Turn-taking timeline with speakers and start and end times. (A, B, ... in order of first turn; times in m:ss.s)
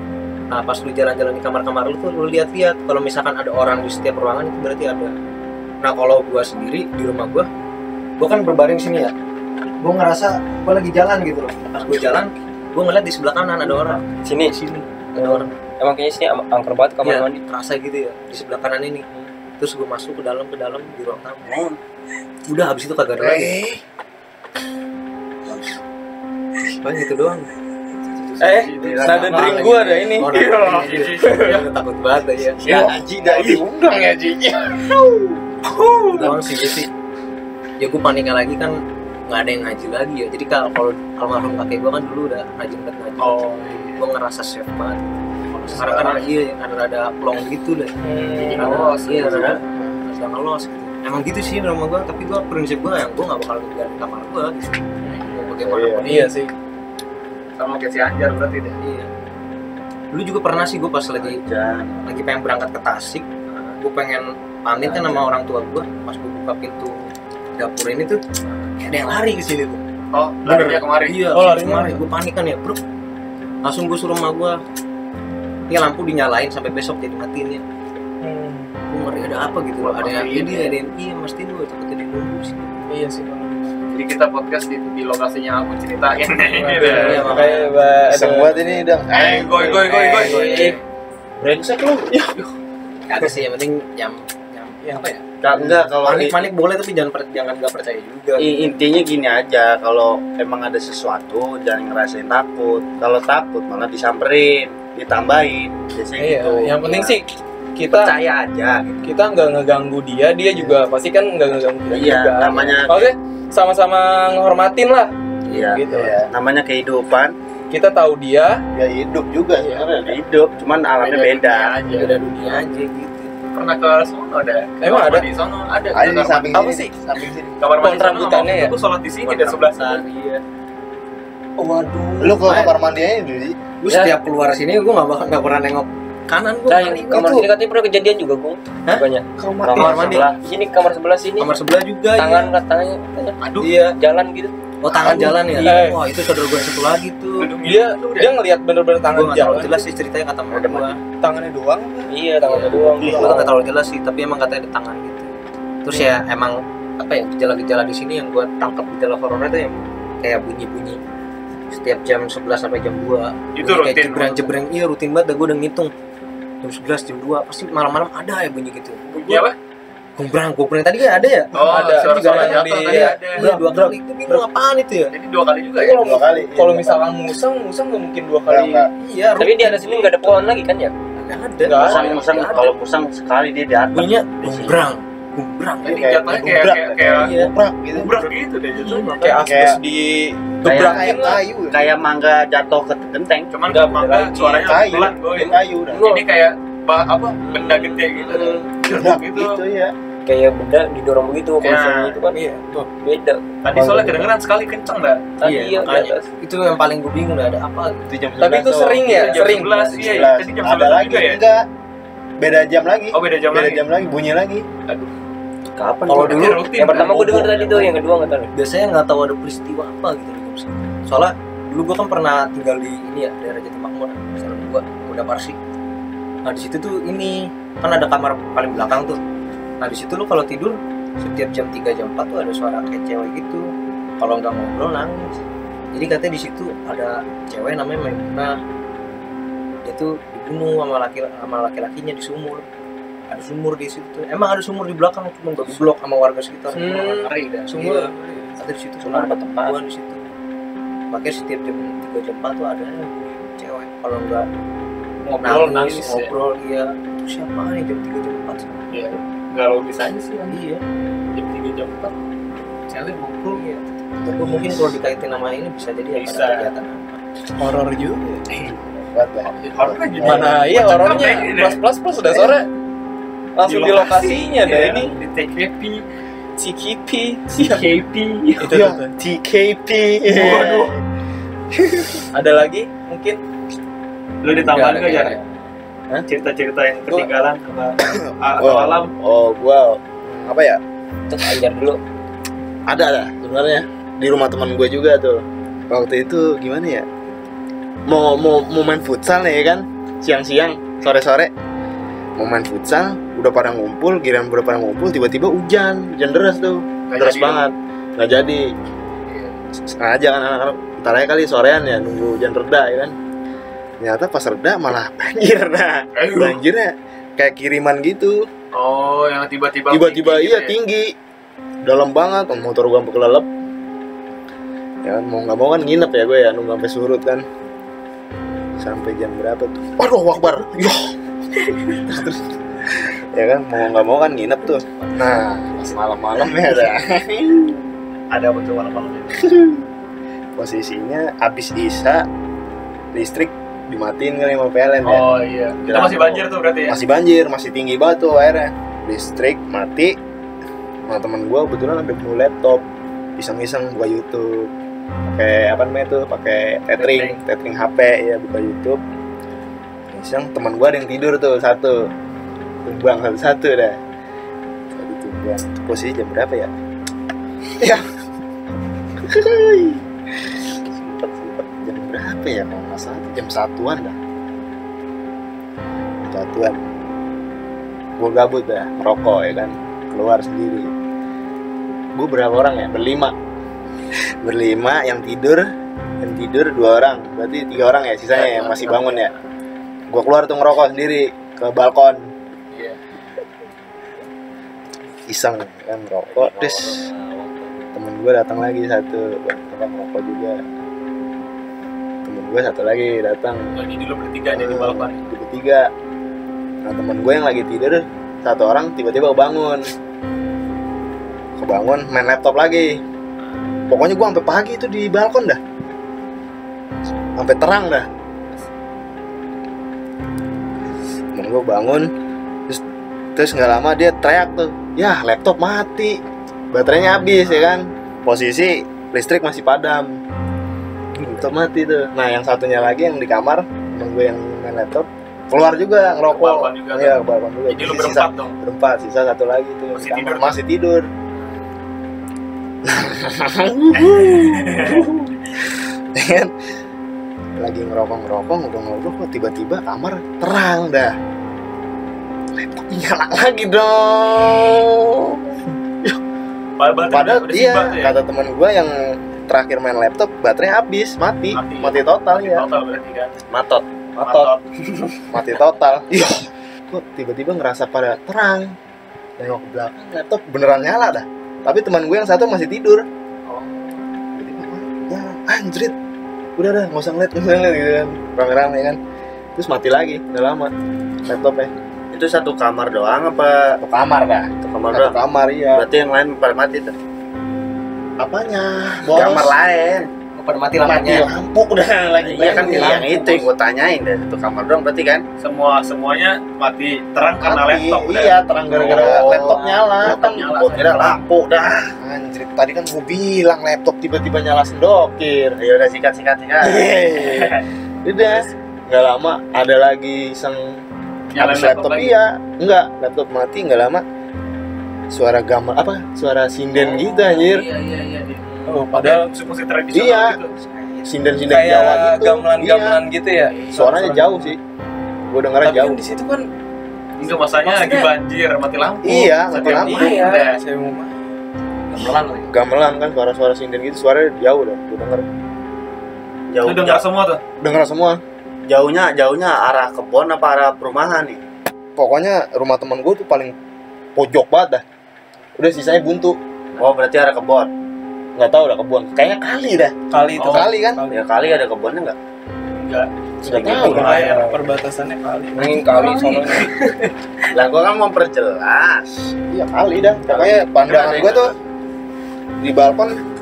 0:00.5-0:05.1 A
0:05.8-0:07.5 A
0:08.2-0:09.1 A
0:09.8-0:15.6 A
0:14.1-0:14.6 B
0:15.2-0:17.4 B
0:17.0-0:19.0 A
0:19.6-0:21.6 A
0:21.4-0:21.8 C
0:22.5-0:23.6 A
0:23.2-0:23.7 D
0:26.8-0:27.5 A
0:28.0-0:32.7 A
0:28.4-0:31.6 E
0:28.4-0:29.4 D
0:28.8-0:29.6 C
0:30.3-0:31.6 D
0:32.6-0:35.0 D
0:32.7-0:33.6 F
0:35.7-0:36.3 E
0:36.1-0:36.9 A
0:37.8-0:38.8 A
0:39.3-0:56.3 A
0:43.2-0:44.0 D
0:45.7-0:46.1 E
0:45.8-0:46.1 D
0:48.0-0:48.8 E
0:48.4-0:49.6 D
0:48.6-0:49.6 C
0:55.0-0:55.5 E
0:55.6-0:56.1 F
0:56.0-0:56.5 E
0:57.6-0:58.8 D
0:58.8-0:59.1 A
1:00.1-1:01.4 A
1:01.2-1:02.0 C
1:02.0-1:03.3 A
1:03.5-1:03.8 D
1:03.8-1:08.2 A
1:08.8-1:09.8 A
1:10.1-1:11.2 D
1:10.4-1:12.8 A
1:11.3-1:12.0 E
1:13.6-1:14.6 A
1:15.7-1:17.6 A
1:18.2-1:18.7 E
1:18.9-1:22.8 A
1:19.8-1:20.7 D
1:22.9-1:23.9 E
1:23.9-1:27.4 D
1:26.3-1:28.7 E
1:26.8-1:27.7 A
1:28.0-1:29.9 F
1:29.1-1:30.8 D
1:29.7-1:30.8 A
1:30.1-1:30.8 E
1:33.1-1:38.8 A
1:34.8-1:35.2 E
1:35.4-1:36.3 C
1:35.5-1:36.2 F
1:38.4-1:47.2 C
1:46.2-1:47.2 E
1:47.8-1:48.1 E
1:47.9-1:48.9 A
1:49.0-1:55.1 E
1:50.5-1:50.8 F
1:51.9-1:53.1 C
1:55.5-1:57.3 C
1:55.8-1:56.3 F
1:57.7-1:58.6 E
1:58.7-2:00.2 F
1:59.6-2:02.3 C
2:01.0-2:02.2 D
2:01.9-2:03.3 A
2:03.5-2:06.6 D
2:04.8-2:05.3 E
2:05.9-2:07.5 F
2:07.6-2:10.4 D
2:07.8-2:08.7 E
2:09.2-2:10.1 A
2:11.6-2:12.9 A
2:12.2-2:13.6 F
2:13.8-2:17.5 A
2:13.9-2:14.2 B
2:16.7-2:21.5 B
2:19.6-2:20.3 A
2:19.7-2:20.3 D
2:21.4-2:22.5 A
2:22.2-2:25.8 B
2:23.4-2:23.7 D
2:23.6-2:24.0 A
2:24.8-2:27.5 A
2:25.6-2:26.0 E
2:27.4-2:28.3 D
2:27.6-2:29.8 E
2:29.1-2:31.0 A
2:30.5-2:31.0 C
2:31.2-2:32.1 E
2:32.1-2:33.5 B
2:32.4-2:35.3 A
2:32.7-2:33.5 F
2:32.8-2:33.4 C
2:35.8-2:41.0 A
2:41.7-2:45.9 A
2:43.6-2:44.5 D
2:46.6-2:49.4 A
2:49.2-2:49.6 D
2:50.2-2:55.1 A
2:51.5-2:53.4 D
2:51.6-2:54.4 E
2:55.1-2:56.1 D
2:55.7-3:00.4 E
2:56.0-2:57.1 F
2:58.5-2:58.9 F
2:59.4-3:00.9 B
3:01.2-3:02.8 A
3:01.6-3:02.1 E
3:01.7-3:04.8 C
3:01.8-3:02.7 D
3:03.9-3:06.3 A
3:05.8-3:09.5 D
3:06.0-3:08.3 F
3:08.7-3:09.4 A
3:09.1-3:11.4 E
3:09.5-3:09.8 F
3:10.6-3:13.6 C
3:10.7-3:11.9 F
3:13.5-3:19.6 D
3:13.7-3:14.8 B
3:14.6-3:16.0 F
3:15.3-3:16.2 B
3:17.5-3:18.0 A
3:18.8-3:19.9 F
3:20.2-3:24.3 B
3:21.6-3:22.2 D
3:22.3-3:22.8 E
3:23.6-3:25.4 D
3:25.4-3:26.3 B
3:25.5-3:28.1 A
3:28.1-3:31.6 F
3:28.4-3:29.8 E
3:29.0-3:31.4 D
3:32.4-3:34.7 F
3:33.1-3:33.8 D
3:35.8-3:36.7 C
3:36.1-3:37.9 A
3:36.1-3:37.5 D
3:36.2-3:38.5 B
3:38.5-3:45.6 A
3:46.4-3:49.2 A
3:49.8-3:55.3 A
3:55.9-3:58.6 A
3:59.8-4:02.6 A
4:03.3-4:08.1 A
4:06.7-4:08.5 E
4:06.9-4:08.0 D
4:08.6-4:10.3 A
4:11.1-4:14.4 A
4:15.2-4:16.3 D
4:15.4-4:18.9 A
4:18.9-4:20.6 D
4:20.5-4:20.8 A
4:21.3-4:22.1 D
4:22.9-4:23.6 D
4:23.5-4:27.2 A
4:24.3-4:24.9 F
4:26.1-4:26.7 D
4:27.6-4:28.4 E
4:29.0-4:30.6 F
4:29.5-4:31.8 D
4:30.2-4:32.6 E
4:33.6-4:35.1 E
4:33.6-4:36.0 D
4:36.6-4:37.8 E
4:37.6-4:38.7 D
4:38.6-4:39.1 E
4:38.6-4:41.0 F
4:40.3-4:40.9 D
4:41.8-4:42.2 F
4:42.3-4:43.4 E
4:44.4-4:45.4 D
4:44.7-4:45.3 E
4:46.2-4:49.1 D
4:48.6-4:50.8 F
4:51.3-4:52.0 B
4:52.9-4:57.0 F
4:58.1-5:01.5 F
5:02.4-5:08.6 F
5:07.1-5:07.6 D
5:09.3-5:09.5 D
5:09.8-5:13.1 F
5:14.0-5:18.4 F
5:16.2-5:16.6 D
5:18.7-5:20.7 D
5:19.9-5:21.1 F
5:21.8-5:23.5 F
5:25.0-5:27.4 F
5:28.8-5:31.2 F
5:31.7-5:37.9 F
5:38.3-5:39.4 C
5:39.3-5:39.8 F
5:40.6-5:42.2 F
5:43.1-5:50.2 F
5:45.0-5:47.0 D
5:51.1-5:52.8 F
5:53.4-5:54.7 F
5:55.3-5:59.0 F
5:57.0-5:57.4 D
6:00.1-6:02.0 F
6:02.8-6:04.0 F
6:04.9-6:06.7 F
6:07.8-6:08.0 F
6:09.2-6:14.2 F
6:16.2-6:16.8 F
6:18.2-6:20.9 F
6:22.2-6:23.3 F
6:24.4-6:25.6 F
6:26.2-6:29.3 F
6:28.3-6:29.4 D
6:30.1-6:32.3 F
6:35.3-6:37.1 F
6:36.3-6:37.8 C
6:37.9-6:40.6 F
6:42.2-6:43.7 F
6:43.7-6:45.2 D
6:44.5-6:45.9 F
6:46.8-6:49.8 F
6:51.6-6:52.9 F
6:53.9-6:55.6 F
6:57.4-6:58.1 F
7:01.3-7:02.1 F
7:03.4-7:06.2 F
7:06.7-7:10.1 F
7:11.2-7:21.1 F
7:16.2-7:18.5 D
7:19.9-7:20.6 D
7:22.8-7:25.6 F
7:23.9-7:25.1 D
7:26.1-7:26.5 F
7:27.6-7:31.1 F
7:32.5-7:36.2 F
7:36.8-7:38.2 D
7:37.1-7:42.6 F
7:41.5-7:43.4 D
7:43.5-7:44.5 C
7:44.2-7:45.2 D
7:45.3-7:48.7 F
7:49.4-7:53.0 F
7:53.5-7:54.0 D
7:54.3-7:55.9 F
7:56.6-7:59.0 F
7:59.5-8:00.7 F
8:01.2-8:01.7 F
8:02.1-8:03.8 C
8:03.8-8:05.8 F
8:04.6-8:05.2 C
8:05.7-8:06.9 C
8:08.2-8:09.6 F
8:09.0-8:10.1 C
8:10.4-8:11.3 A
8:10.8-8:13.4 F
8:12.2-8:15.2 C
8:12.6-8:13.1 A
8:15.4-8:21.2 D
8:17.4-8:21.3 F
8:18.8-8:21.9 C
8:22.0-8:25.6 F
8:25.6-8:26.9 C
8:26.6-8:30.8 F
8:27.1-8:27.6 D
8:31.3-8:32.1 D
8:31.4-8:34.0 F
8:35.1-8:37.6 F
8:36.7-8:40.5 D
8:38.6-8:39.2 E
8:39.9-8:40.4 F
8:40.7-8:41.0 A
8:41.0-8:43.0 F
8:41.5-8:44.5 E
8:43.7-8:44.6 F
8:45.3-8:46.0 F
8:45.6-8:46.5 E
8:47.2-8:50.6 D
8:47.2-8:48.1 E
8:49.0-8:50.3 F
8:49.5-8:51.4 E
8:51.9-8:52.4 D
8:52.5-8:55.2 F
8:56.5-8:57.0 C
8:56.6-8:57.4 D
8:57.6-8:58.2 F
8:58.7-9:01.4 C
9:02.0-9:03.5 F
9:04.2-9:04.8 F
9:05.6-9:06.4 F
9:06.8-9:07.7 C
9:08.4-9:11.0 F
9:10.1-9:11.1 E
9:10.4-9:10.7 D
9:11.1-9:12.2 C
9:12.8-9:14.4 D
9:13.4-9:14.5 F
9:13.4-9:14.5 C
9:13.6-9:17.1 E
9:15.5-9:16.7 B
9:17.5-9:19.3 C
9:19.5-9:21.5 F
9:20.3-9:21.6 D
9:22.6-9:23.1 F